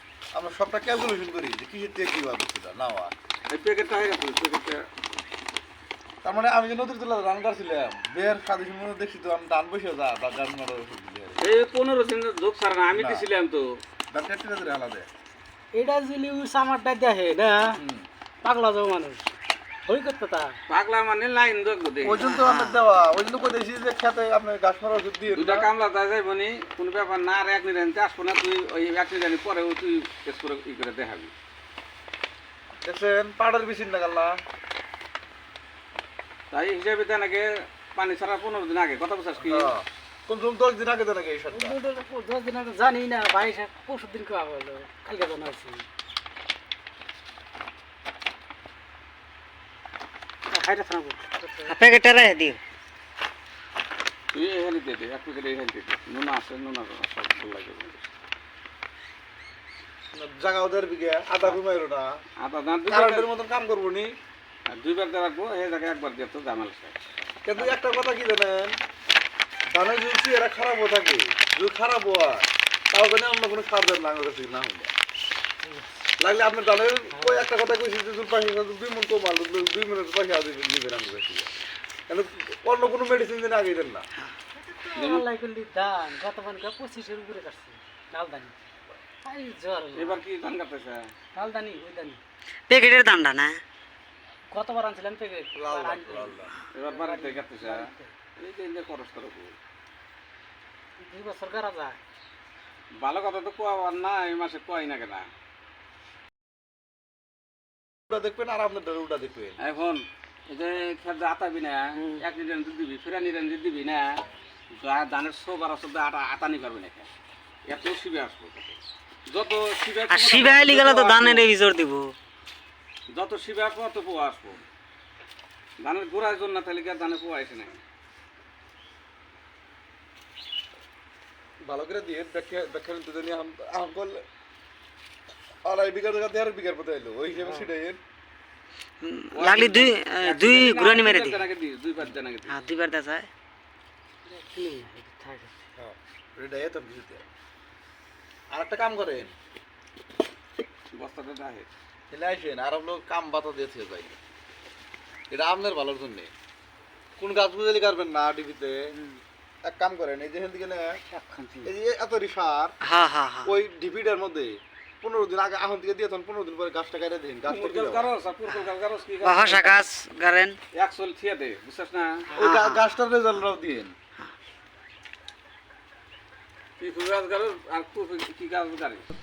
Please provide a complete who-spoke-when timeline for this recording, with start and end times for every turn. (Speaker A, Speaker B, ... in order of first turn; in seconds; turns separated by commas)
Speaker A: 0.3-3.1, Speaker B: 3.5-4.8, Speaker A: 6.2-11.4, Speaker B: 11.4-13.7, Speaker A: 12.9-13.2, Speaker A: 14.1-15.1, Speaker C: 15.7-17.8, Speaker A: 17.8-18.1, Speaker C: 18.4-19.3, Speaker C: 19.9-20.5, Speaker B: 20.7-22.3, Speaker A: 22.0-25.7, Speaker D: 22.4-22.8, Speaker B: 25.3-31.3, Speaker A: 32.8-34.3, Speaker B: 36.5-39.7, Speaker A: 39.4-41.7, Speaker C: 41.5-45.8, Speaker C: 50.5-51.8, Speaker D: 51.7-52.6, Speaker B: 54.3-58.0, Speaker A: 60.1-62.1, Speaker B: 62.4-63.3, Speaker A: 62.9-64.1, Speaker B: 64.7-67.0, Speaker A: 67.4-68.8, Speaker B: 67.5-67.8, Speaker A: 69.7-74.9, Speaker C: 75.6-75.9, Speaker A: 76.2-81.5, Speaker C: 77.1-77.5, Speaker A: 82.1-84.0, Speaker C: 84.6-88.6, Speaker B: 85.0-85.2, Speaker C: 89.2-90.2, Speaker B: 89.9-91.0, Speaker C: 91.3-92.2, Speaker D: 92.7-93.6, Speaker C: 94.5-98.1, Speaker A: 95.5-96.5, Speaker B: 96.7-97.8, Speaker B: 98.4-99.5, Speaker C: 101.0-102.0, Speaker B: 103.0-105.3, Speaker A: 108.1-109.6, Speaker B: 109.6-114.1, Speaker B: 114.8-117.1, Speaker B: 117.7-118.8, Speaker B: 119.3-121.5, Speaker D: 120.1-122.1, Speaker B: 123.1-124.6, Speaker B: 125.8-127.8, Speaker A: 131.7-134.2, Speaker A: 135.6-138.0, Speaker C: 137.3-137.7, Speaker D: 139.0-141.4, Speaker B: 139.3-142.6, Speaker D: 142.5-143.3, Speaker C: 144.3-145.5, Speaker A: 145.8-147.2, Speaker A: 148.5-149.3, Speaker B: 150.9-151.7, Speaker A: 152.1-154.2, Speaker A: 155.3-156.3, Speaker A: 157.2-158.8, Speaker A: 159.6-161.0, Speaker C: 161.0-161.7, Speaker A: 161.6-162.7, Speaker D: 162.8-163.5, Speaker A: 163.4-168.1, Speaker B: 167.5-169.8, Speaker D: 169.2-170.6, Speaker B: 170.7-172.3, Speaker A: 172.3-173.9, Speaker D: 172.4-172.8, Speaker B: 176.8-179.1